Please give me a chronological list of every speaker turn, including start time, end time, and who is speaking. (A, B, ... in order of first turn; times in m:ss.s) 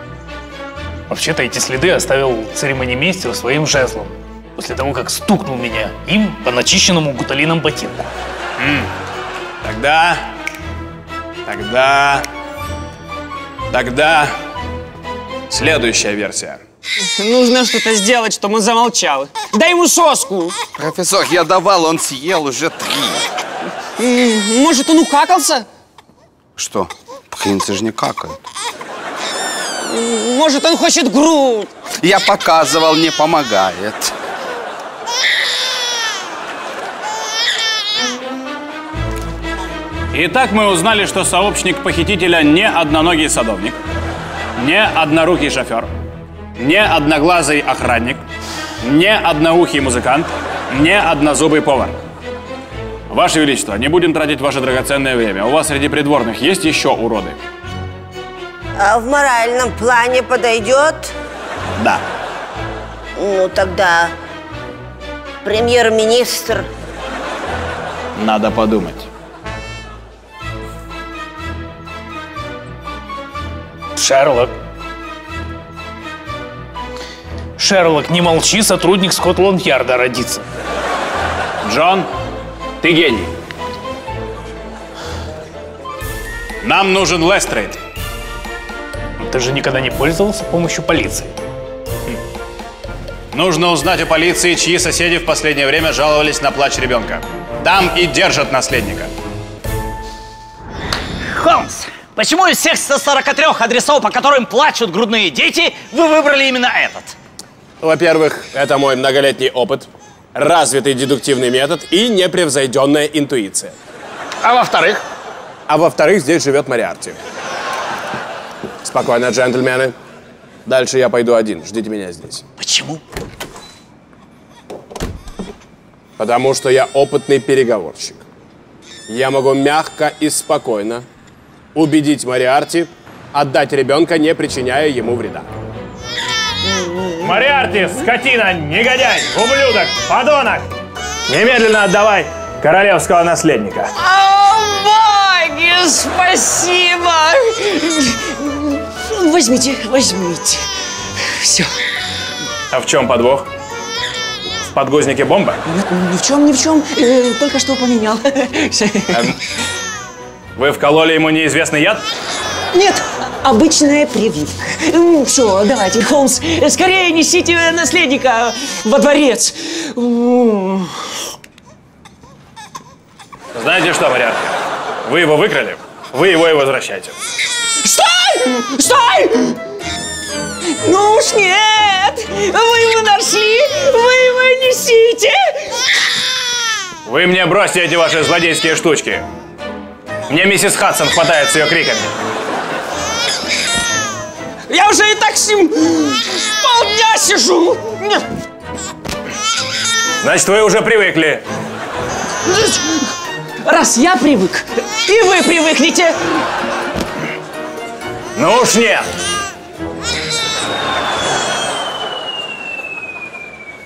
0:01.1-0:08.1 A
0:08.6-0:08.9 B
0:09.6-0:10.3 B
0:11.4-0:12.3 B
0:13.7-0:14.3 B
0:15.5-0:16.6 B
0:17.2-0:20.6 C
0:20.8-0:23.2 D
0:24.0-0:25.6 C
0:26.6-0:28.4 D
0:29.8-0:31.7 C
0:32.0-0:34.1 D
0:40.1-0:43.8 B
0:44.6-0:45.9 B
0:46.6-0:48.2 B
0:48.8-0:52.0 B
0:53.1-0:57.4 B
0:58.8-1:01.1 E
1:01.8-1:02.0 B
1:03.2-1:04.1 E
1:05.4-1:06.7 E
1:08.2-1:09.1 B
1:14.0-1:14.5 A
1:17.6-1:20.4 A
1:21.6-1:22.1 B
1:22.8-1:23.3 B
1:26.6-1:27.8 B
1:29.2-1:31.4 A
1:33.3-1:39.1 B
1:41.3-1:47.2 F
1:47.8-1:53.8 G
1:54.5-1:55.0 B
1:55.7-1:57.2 G
1:58.8-1:59.9 G
2:00.6-2:02.4 G
2:02.6-2:03.0 F
2:06.2-2:08.2 G
2:09.1-2:11.0 G
2:11.8-2:15.5 G
2:16.6-2:17.3 C
2:17.2-2:20.7 B
2:21.3-2:23.9 B
2:24.0-2:31.7 C
2:32.7-2:33.5 B
2:34.6-2:35.6 B
2:35.6-2:39.3 C
2:39.1-2:39.4 B
2:40.6-2:42.0 B
2:42.7-2:51.0 C
2:53.6-2:57.1 B
2:57.8-2:59.6 C
3:00.8-3:05.8 C
3:07.0-3:09.2 B
3:10.3-3:12.1 B
3:14.7-3:18.2 C
3:20.2-3:21.4 B
3:22.5-3:23.1 C
3:23.6-3:26.1 C
3:28.4-3:29.1 B